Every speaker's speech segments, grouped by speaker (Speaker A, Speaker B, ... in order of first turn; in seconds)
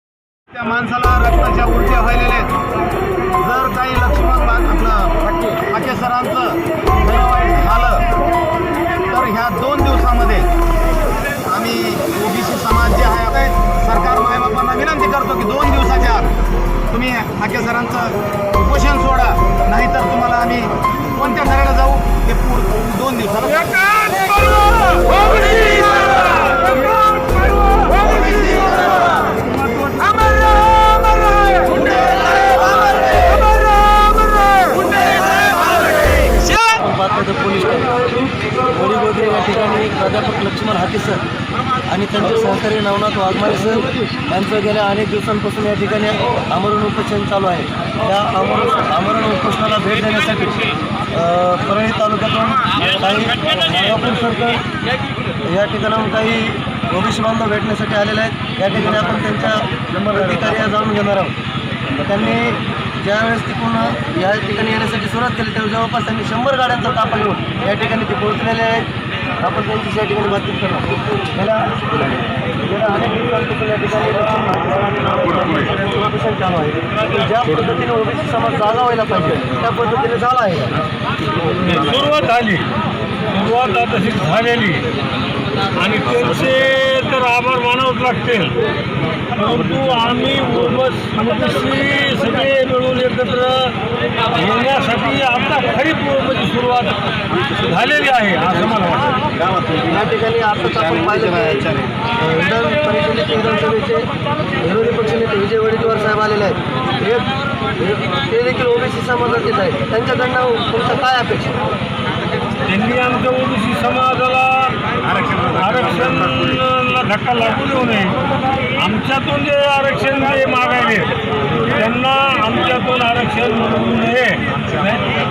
Speaker A: 0.5-2.5, 3.4-8.1, 9.1-10.5, 11.4-16.3, 16.9-23.9
Speaker B: 24.0-25.8, 29.8-30.2, 81.6-82.7, 83.3-84.9, 85.8-88.5, 89.3-93.8, 94.3-97.0, 97.6-99.1, 112.7-118.2, 118.8-121.1, 121.7-125.0
Speaker C: 36.5-38.0, 38.7-41.2, 41.8-54.6, 55.4-61.3, 62.0-68.9, 69.4-80.8, 99.8-104.1, 104.6-111.6